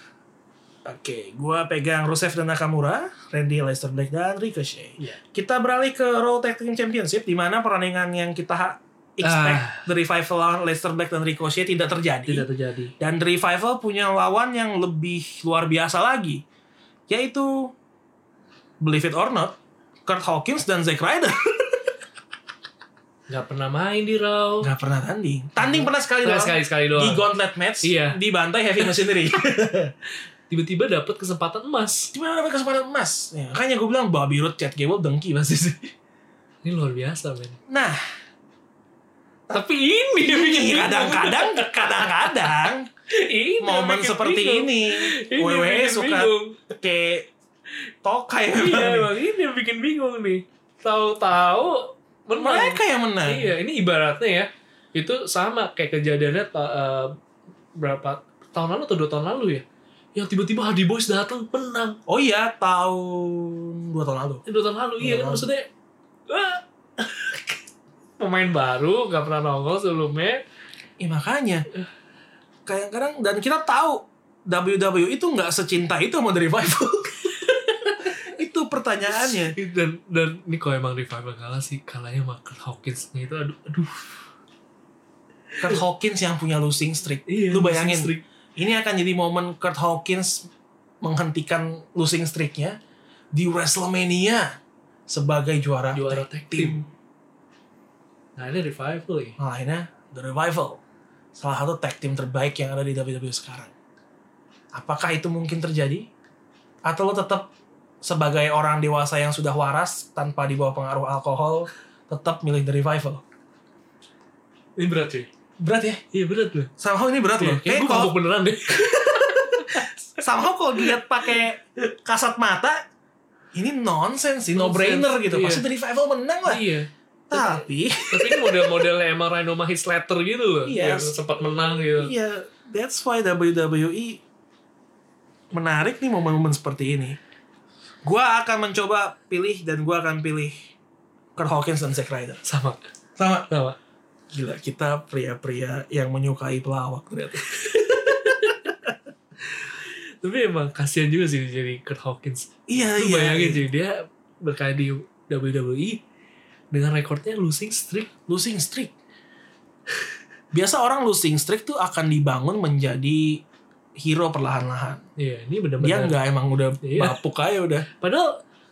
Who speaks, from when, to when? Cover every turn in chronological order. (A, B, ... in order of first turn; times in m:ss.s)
0:00.9-0:12.5 A
0:09.2-0:09.9 B
0:12.3-0:12.9 B
0:13.0-0:16.4 A
0:17.1-0:17.7 A
0:18.8-0:21.8 A
0:23.3-0:24.7 B
0:24.6-0:29.9 A
0:25.6-0:27.3 B
0:27.8-0:28.2 B
0:28.8-0:29.3 B
0:30.5-0:32.1 B
0:32.1-0:35.9 A
0:36.6-0:37.6 B
0:37.7-0:38.0 A
0:39.5-0:42.5 B
0:40.2-0:42.9 A
0:43.1-0:46.6 B
0:43.6-0:47.3 A
0:48.0-0:49.1 A
0:48.5-0:57.1 B
0:52.3-0:53.6 A
0:57.8-1:02.0 B
1:02.1-1:04.4 A
1:04.5-1:05.7 B
1:05.0-1:05.5 A
1:06.3-1:07.6 B
1:08.2-1:10.4 B
1:11.0-1:11.7 A
1:12.7-1:17.4 A
1:17.4-1:18.2 B
1:18.0-1:19.6 A
1:19.2-1:24.2 B
1:25.6-1:30.5 A
1:27.3-1:28.2 B
1:31.0-1:32.8 A
1:33.3-1:34.6 A
1:35.1-1:36.9 A
1:35.9-1:36.8 B
1:38.4-1:39.4 B
1:39.4-1:40.8 A
1:41.4-1:43.7 A
1:44.7-1:46.1 A
1:46.8-1:47.5 A
1:48.0-1:53.2 A
1:54.8-1:55.3 B
1:55.6-1:56.0 A
1:56.1-1:56.7 B
1:56.8-1:58.2 A
1:57.4-1:59.9 B
1:59.4-2:02.8 A
2:00.8-2:01.4 B
2:03.5-2:06.6 A
2:04.6-2:05.6 B
2:06.5-2:12.1 B
2:07.3-2:08.8 A
2:10.7-2:11.2 A
2:11.9-2:14.2 A
2:15.5-2:17.2 A
2:18.0-2:20.6 A
2:21.4-2:22.4 A
2:22.4-2:22.8 B
2:23.2-2:23.5 A
2:23.5-2:23.8 B
2:24.3-2:28.7 A
2:27.4-2:28.7 B
2:29.4-2:36.0 B
2:32.7-2:33.6 A
2:36.7-2:38.1 B
2:38.3-2:38.9 A
2:40.5-2:43.4 A
2:44.0-2:45.0 A
2:45.2-2:46.2 B
2:45.8-2:47.9 A
2:46.8-2:47.2 B
2:47.9-2:48.4 B